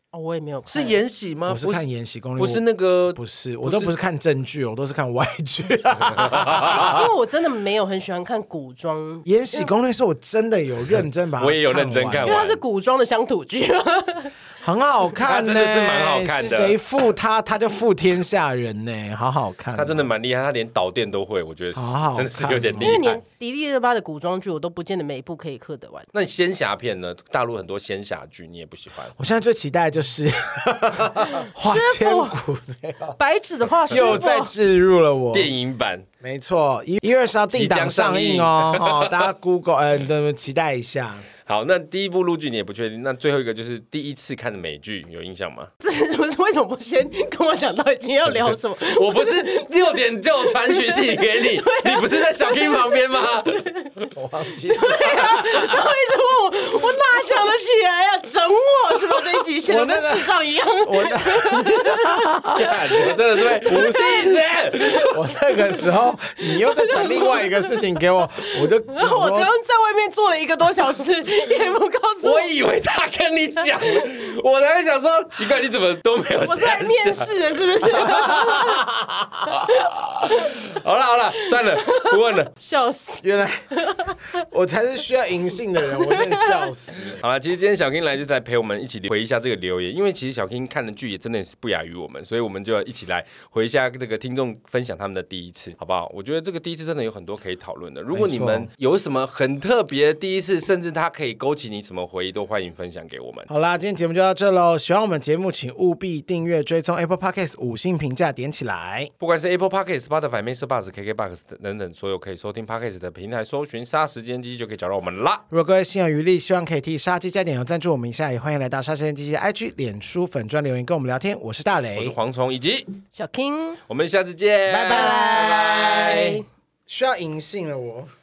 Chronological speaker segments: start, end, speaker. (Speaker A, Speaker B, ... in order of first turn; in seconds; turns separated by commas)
Speaker A: 0.1-1.0, Speaker B: 0.7-1.9, Speaker C: 1.5-7.0, Speaker B: 2.4-3.9, Speaker B: 6.1-7.0, Speaker A: 6.7-9.7, Speaker C: 9.3-12.4, Speaker B: 11.4-12.6, Speaker A: 12.2-14.3, Speaker C: 14.6-20.1, Speaker B: 15.2-16.8, Speaker B: 19.8-23.2, Speaker C: 21.8-23.0, Speaker A: 22.8-26.1, Speaker B: 26.1-29.1, Speaker C: 29.2-33.2, Speaker A: 31.6-32.4, Speaker A: 33.2-34.5, Speaker B: 33.9-34.2, Speaker C: 33.9-35.5, Speaker B: 35.3-36.1, Speaker C: 36.2-41.3, Speaker B: 37.5-39.3, Speaker B: 41.5-45.7, Speaker A: 45.8-49.8, Speaker B: 48.8-53.7, Speaker A: 50.4-53.9, Speaker C: 54.1-55.8, Speaker A: 54.7-62.8, Speaker C: 59.7-63.0, Speaker B: 62.5-65.2, Speaker A: 63.6-64.4, Speaker C: 63.6-64.4, Speaker C: 65.1-69.5, Speaker A: 66.4-67.8, Speaker A: 68.4-72.5, Speaker B: 72.2-77.3, Speaker A: 76.4-78.9, Speaker C: 78.2-79.4, Speaker A: 79.5-80.5, Speaker B: 79.5-82.5, Speaker A: 81.4-84.4, Speaker C: 83.2-87.2, Speaker A: 85.8-86.7, Speaker B: 87.0-103.5, Speaker C: 98.1-98.7, Speaker C: 103.5-109.1, Speaker B: 109.2-115.4, Speaker C: 115.5-122.2, Speaker B: 122.0-122.9, Speaker A: 123.2-123.8, Speaker B: 123.9-126.4, Speaker C: 124.7-126.4, Speaker A: 124.9-126.3, Speaker C: 126.9-128.1